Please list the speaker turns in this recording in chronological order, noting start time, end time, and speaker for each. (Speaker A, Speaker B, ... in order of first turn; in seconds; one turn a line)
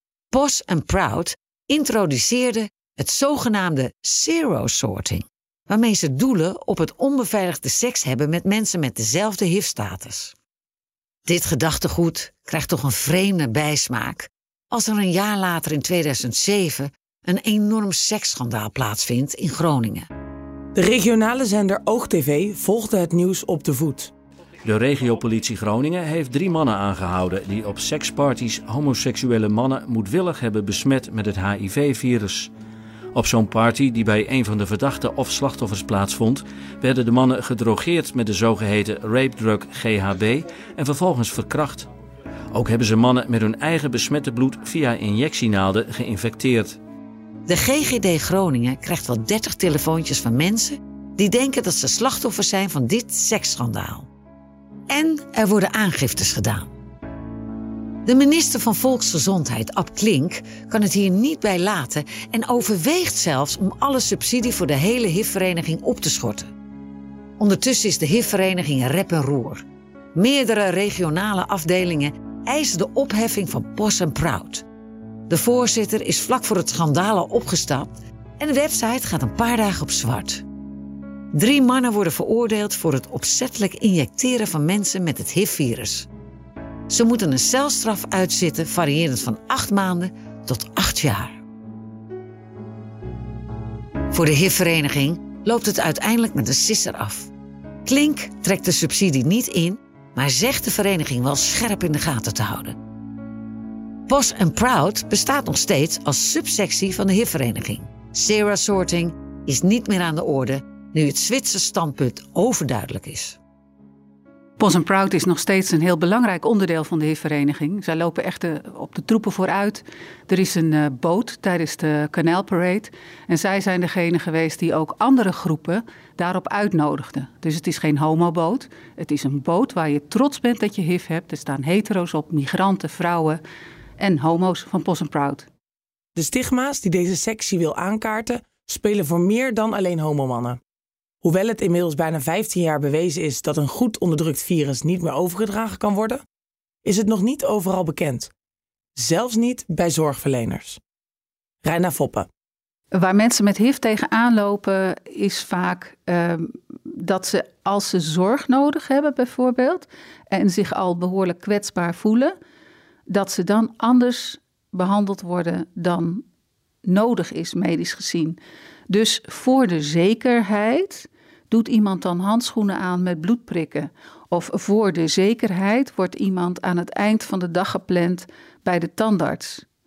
Speaker A: 0.3-10.3
Speaker A: 11.3-20.1
Speaker B: 20.8-24.1
Speaker C: 24.6-32.5
Speaker C: 33.1-41.9
Speaker C: 42.5-46.8
Speaker A: 47.5-54.1
Speaker A: 54.9-56.7
Speaker A: 58.1-66.5
Speaker A: 67.4-69.6
Speaker A: 70.2-74.7
Speaker A: 75.3-80.4
Speaker A: 81.3-86.1
Speaker A: 86.9-91.4
Speaker A: 94.1-97.3
Speaker A: 97.8-102.8
Speaker A: 104.1-113.4
Speaker D: 114.6-133.4
Speaker D: 134.0-135.5
Speaker B: 136.2-140.6
Speaker B: 141.2-146.2
Speaker B: 146.8-148.3
Speaker B: 149.0-150.8
Speaker B: 151.6-152.3
Speaker D: 152.9-162.3
Speaker D: 163.1-166.2
Speaker D: 166.8-168.4
Speaker D: 168.9-179.7